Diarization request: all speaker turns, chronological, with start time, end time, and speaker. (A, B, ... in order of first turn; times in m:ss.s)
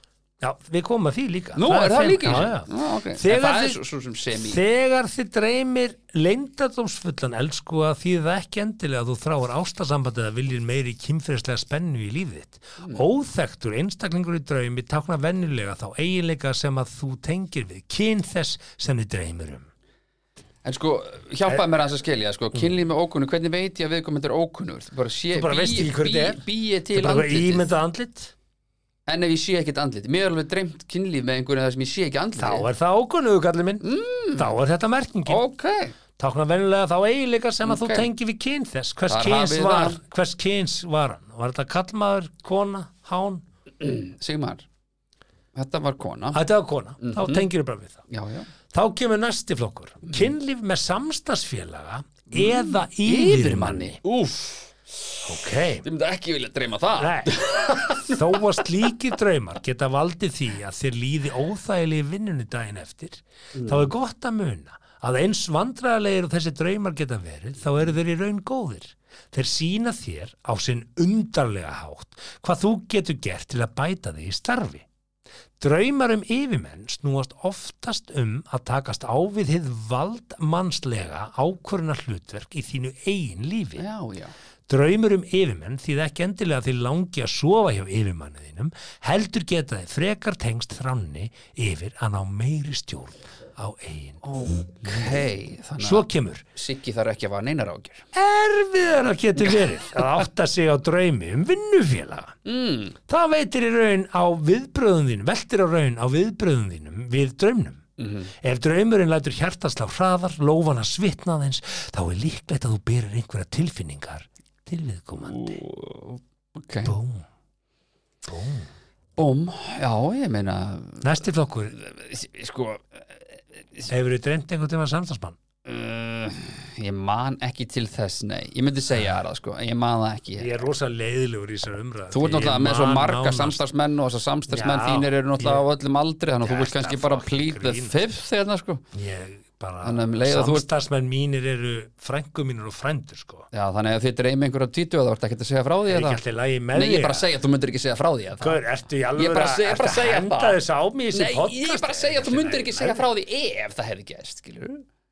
0:00.4-0:03.8 A
0:01.6-0:04.6 B
0:04.4-0:19.7 A
0:20.6-0:27.7 B
0:25.3-0:28.3 A
0:29.1-0:32.7 B
0:32.4-0:35.4 A
0:33.8-0:34.6 B
0:35.2-0:35.9 B
0:36.2-0:43.4 A
0:37.6-0:38.1 B
0:39.1-0:40.0 B
0:43.8-0:44.6 B
0:45.5-0:46.4 B
0:46.3-0:48.0 A
0:47.0-0:47.5 B
0:48.1-0:48.5 B
0:48.7-0:54.0 A
0:52.3-0:58.6 B
0:55.2-0:55.8 A
0:57.0-1:14.8 A
1:03.6-1:03.9 B
1:15.6-1:23.8 A
1:23.8-1:24.3 B
1:24.7-1:34.2 A
1:34.2-1:38.0 B
1:35.8-1:36.4 A
1:38.1-1:42.4 A
1:42.4-1:43.0 B
1:43.1-1:47.8 A
1:48.0-1:48.3 B
1:48.4-1:55.6 A
1:55.2-1:56.9 B
1:56.8-1:57.2 A
1:58.2-1:58.7 A
1:59.2-2:03.9 B
2:01.0-2:01.7 A
2:03.9-2:05.4 A
2:05.6-2:10.6 B
2:10.4-2:13.6 A
2:12.1-2:18.8 B
2:14.5-2:15.6 A
2:16.4-2:18.0 A
2:18.9-2:23.5 A
2:19.8-2:20.6 B
2:23.5-2:26.2 B
2:25.9-2:27.3 A
2:26.7-2:28.6 B
2:28.4-2:33.0 A
2:29.2-2:30.6 B
2:31.1-2:34.8 B